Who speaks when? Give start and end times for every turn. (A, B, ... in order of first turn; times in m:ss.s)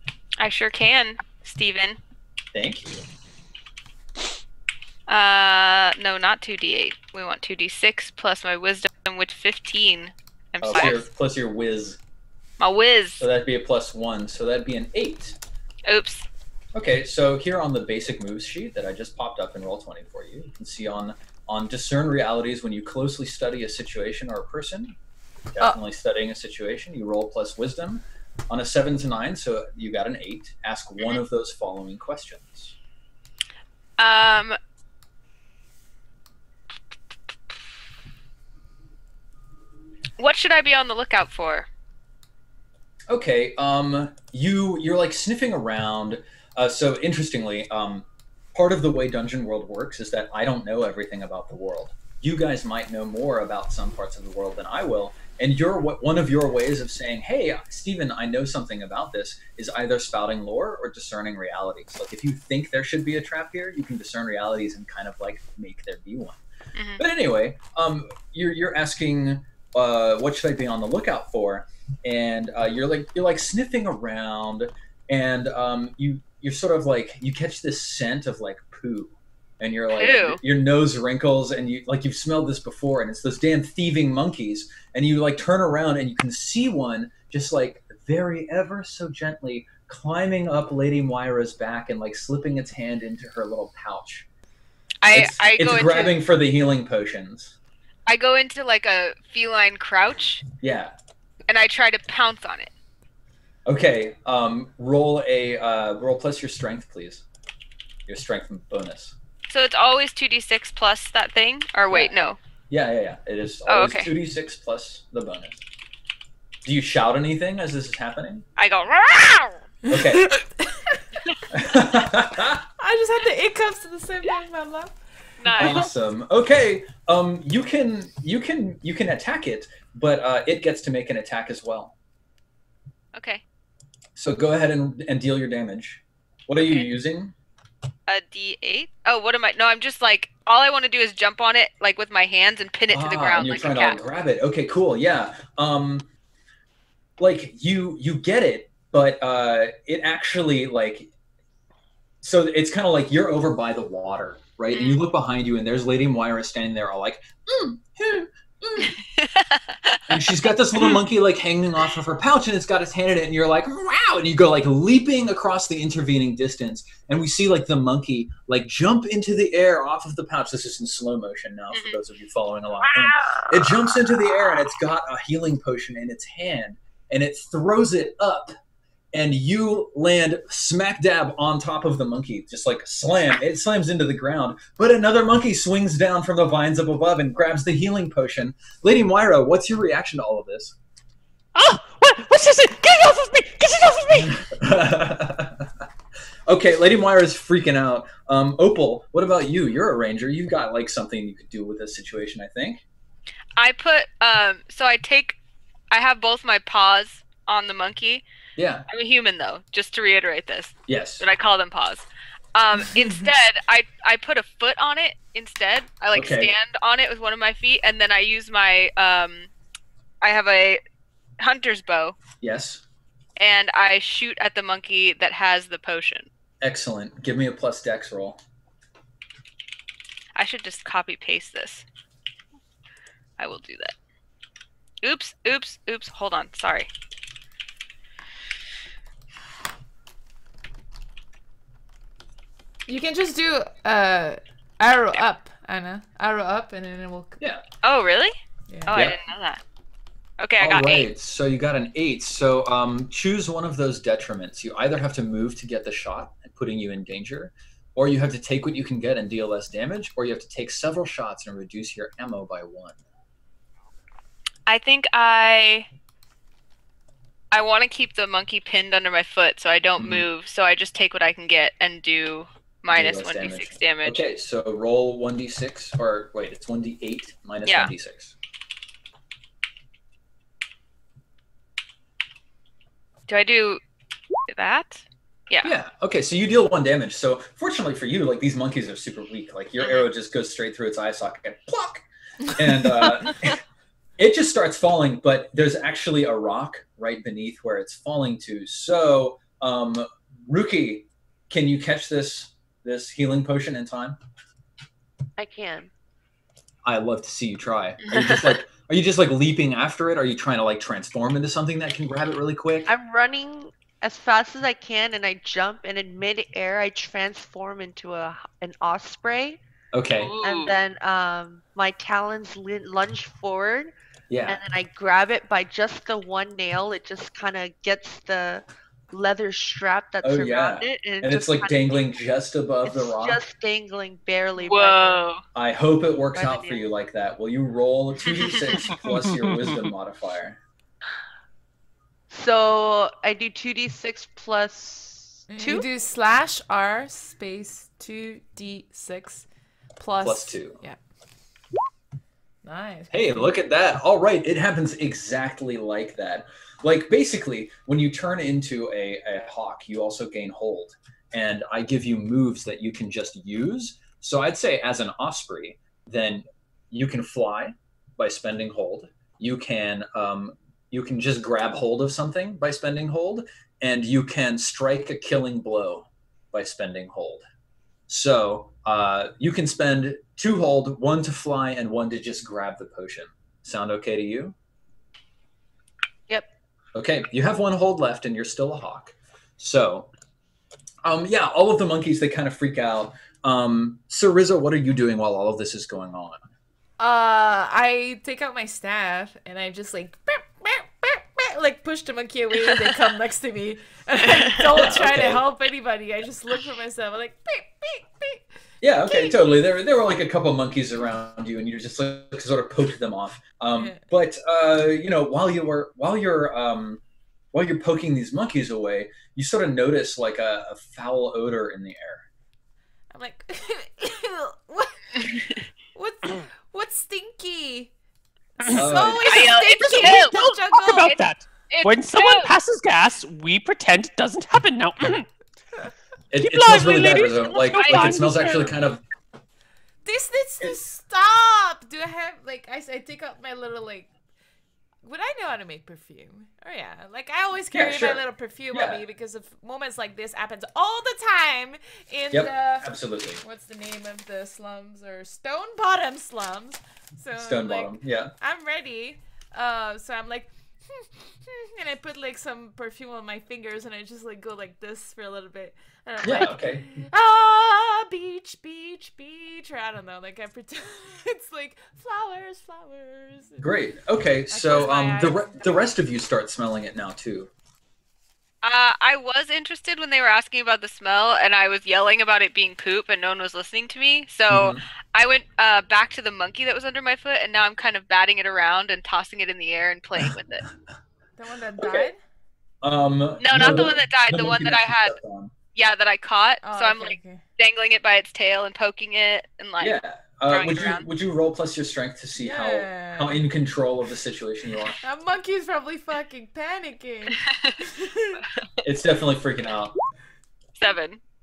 0:00.4-0:02.0 A
0:02.5-0:03.0 B
0:05.1-0:11.1 A
0:10.6-0:12.0 B
0:12.6-0:13.2 A
0:13.2-0:15.4 B
0:15.9-0:16.3 A
0:16.8-0:25.0 B
0:25.5-0:32.8 B
0:34.0-0:34.6 A
0:40.2-0:41.7 A
0:43.1-1:06.4 B
1:06.8-1:07.0 A
1:07.0-1:34.3 B
1:19.9-1:20.4 A
1:35.0-1:36.2 A
1:35.1-1:37.6 B
1:38.1-1:40.4 A
1:40.6-1:41.0 B
1:41.5-1:42.7 A
1:43.7-1:47.2 B
1:48.1-1:49.2 B
1:49.5-1:52.4 A
1:52.7-1:55.6 B
1:53.7-1:54.1 A
1:56.6-1:58.4 B
1:58.6-1:59.6 A
1:59.9-2:00.3 B
2:00.0-2:01.0 C
2:01.5-2:02.6 B
2:02.8-2:05.0 C
2:05.4-2:05.9 A
2:05.6-2:11.9 B
2:13.2-2:13.4 A
2:14.2-2:17.4 B
2:16.6-2:16.9 A
2:18.1-2:24.0 A
2:22.9-2:26.1 B
2:27.2-2:31.1 B
2:32.2-2:39.0 B
2:34.7-2:35.0 A
2:39.2-2:40.0 A
2:40.1-2:58.5 B
2:51.7-2:52.0 A
2:53.2-2:53.5 A
2:59.1-3:10.8 B
3:11.6-3:14.6 D
3:14.4-3:15.7 B
3:16.5-3:22.8 B
3:23.6-3:25.4 A
3:25.9-3:28.2 A
3:28.6-3:28.9 B
3:28.9-3:39.5 A
3:30.9-3:31.3 B
3:36.1-3:36.5 B
3:40.2-3:40.8 A
3:41.4-3:42.2 A
3:42.4-3:42.8 B
3:43.4-3:46.3 A
3:46.6-3:48.4 B
3:50.4-3:51.8 A
3:53.4-3:54.0 A
3:55.0-3:56.9 A
4:02.9-4:07.4 C
4:07.8-4:08.4 A
4:08.7-4:09.0 C
4:08.9-4:09.6 A
4:08.9-4:09.2 B
4:10.4-4:11.1 A
4:10.6-4:23.0 B
4:24.7-4:25.9 A
4:27.5-4:34.2 A
4:30.0-4:30.3 B
4:32.9-4:38.3 B
4:43.3-4:43.8 A
4:44.5-4:45.7 A
4:45.6-4:53.6 B
4:49.8-4:50.1 A
4:54.2-5:04.2 B
5:05.4-5:05.9 E
5:06.8-5:12.9 B
5:08.0-5:08.6 A
5:12.9-5:19.6 E
5:19.9-5:20.4 B
5:20.2-5:20.8 A
5:20.4-5:23.9 E
5:24.3-5:24.6 B
5:24.5-5:32.0 E
5:30.2-5:33.4 B
5:32.9-5:35.2 E
5:34.6-5:35.4 A
5:35.6-5:40.6 B
5:36.4-5:36.9 E
5:38.3-5:38.8 A
5:38.8-5:39.9 D
5:42.3-5:45.9 E
5:45.5-5:49.5 C
5:50.0-5:51.0 C
5:50.2-5:50.8 B
5:52.6-5:53.4 C
5:53.1-6:17.4 B
6:18.1-6:24.6 B
6:27.0-6:30.1 B
6:31.0-6:36.4 B
6:37.0-6:48.4 C
6:44.3-6:44.6 A
6:44.7-6:45.4 B
6:48.8-6:57.0 B
6:49.1-6:49.5 C
6:53.8-6:54.0 C
6:57.5-7:02.3 B
7:03.1-7:07.9 C
7:08.6-7:11.2 C
7:08.6-7:15.3 D
7:08.8-7:09.4 B
7:09.3-7:10.4 A
7:11.1-7:12.5 A
7:16.3-7:19.0 B
7:16.4-7:18.8 D
7:17.8-7:18.3 A
7:20.0-7:24.1 C
7:25.0-7:32.9 C
7:27.7-7:29.0 B
7:32.3-7:33.4 B
7:33.4-7:53.7 C
7:37.4-7:38.3 B
7:46.2-7:46.9 B
7:53.6-7:57.5 B
7:54.5-7:55.9 C
7:58.6-8:10.7 A
8:04.5-8:04.8 B
8:11.4-8:12.2 C
8:11.8-8:12.1 B
8:12.8-8:15.5 B
8:13.4-8:15.2 A
8:15.8-8:20.0 A
8:16.6-8:17.4 C
8:19.8-8:25.0 B
8:20.5-8:21.1 A
8:22.4-8:23.4 C
8:25.0-8:28.4 C
8:27.4-8:27.8 A
8:28.8-8:30.0 B
8:30.8-8:31.2 A